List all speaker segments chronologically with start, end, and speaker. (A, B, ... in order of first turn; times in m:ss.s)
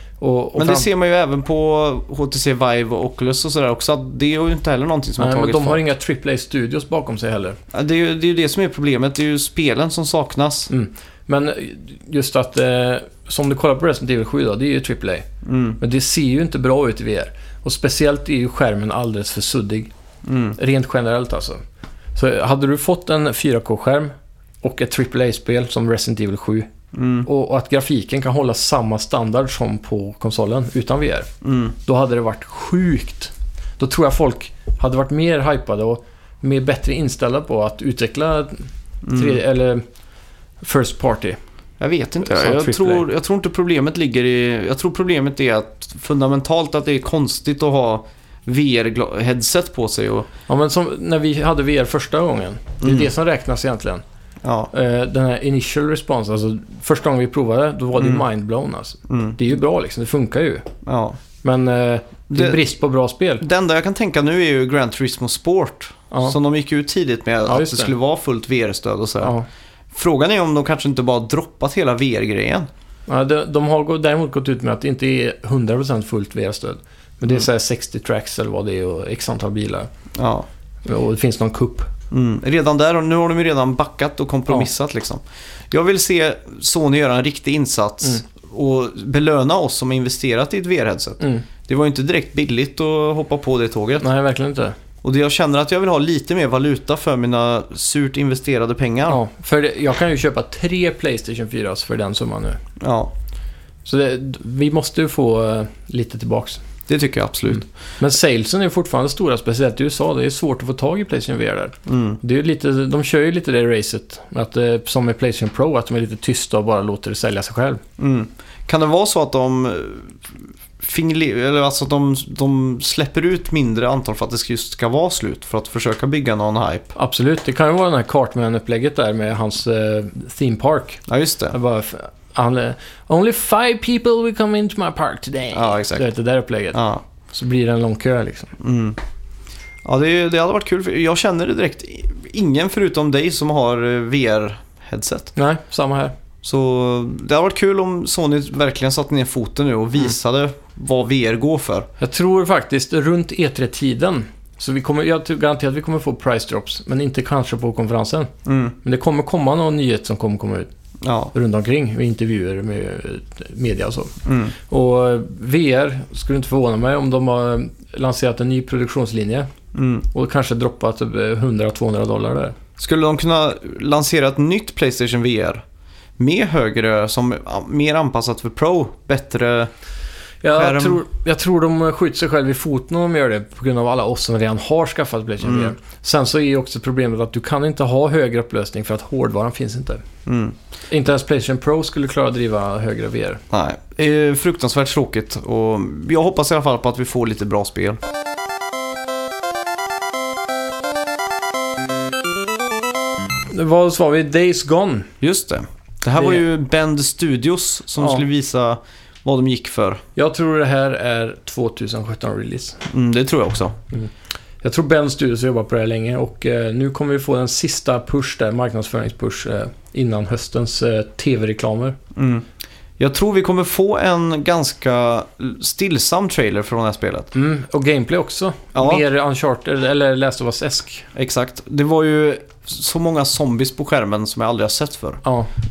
0:00.2-0:00.9 A
0:00.6-0:05.8 B
0:05.2-0:07.6 A
0:07.7-0:10.7 B
0:10.7-0:15.3 A
0:15.4-0:15.8 B
0:15.8-0:19.9 A
0:20.2-0:20.6 B
0:20.6-0:21.6 A
0:22.2-0:26.7 A
0:26.9-0:27.3 B
0:27.2-0:31.3 A
0:31.4-0:31.7 B
0:31.8-0:39.8 A
0:39.0-0:39.4 B
0:40.6-0:41.4 A
0:41.8-0:50.3 B
0:42.2-0:43.0 A
0:50.5-0:54.0 A
0:52.8-0:53.1 B
0:54.4-0:54.7 B
0:54.7-1:00.7 A
0:58.0-0:58.2 B
0:59.1-0:59.4 B
1:00.8-1:01.2 B
1:01.4-1:03.4 A
1:02.3-1:02.6 B
1:03.4-1:09.3 B
1:06.1-1:06.4 A
1:07.4-1:07.9 A
1:09.9-1:12.7 B
1:13.1-1:19.9 A
1:20.2-1:20.5 B
1:20.8-1:21.9 A
1:22.1-1:34.0 B
1:31.2-1:31.4 A
1:34.0-1:34.8 A
1:35.0-1:39.2 B
1:39.1-1:42.6 A
1:42.8-1:43.1 B
1:43.8-1:46.6 A
1:46.9-1:47.6 B
1:47.5-1:57.8 A
1:51.9-1:52.2 B
1:58.0-2:06.9 B
2:06.9-2:18.5 A
2:11.1-2:11.5 B
2:15.5-2:16.0 B
2:16.7-2:17.0 B
2:18.6-2:19.0 B
2:19.8-2:25.3 B
2:25.4-2:26.1 A
2:26.4-2:31.9 B
2:32.0-2:38.3 A
2:38.4-2:38.8 B
2:38.8-2:40.7 A
2:41.0-2:41.3 B
2:41.3-2:44.2 A
2:44.2-2:44.5 B
2:44.7-2:49.5 A
2:49.7-2:50.1 B
2:50.1-2:52.5 A
2:52.8-2:55.6 B
2:56.2-2:59.7 B
3:00.4-3:10.0 A
3:00.5-3:01.0 B
3:05.4-3:05.7 B
3:10.2-3:10.6 B
3:10.9-3:13.4 A
3:13.5-3:18.0 B
3:23.5-3:25.1 A
3:25.2-3:30.0 B
3:30.2-3:32.8 A
3:32.9-3:33.8 B
3:34.6-3:42.0 A
3:42.1-3:42.4 B
3:43.0-3:47.3 B
3:47.3-3:51.1 A
3:48.7-3:49.0 B
3:51.1-3:55.2 B
3:55.2-3:55.5 A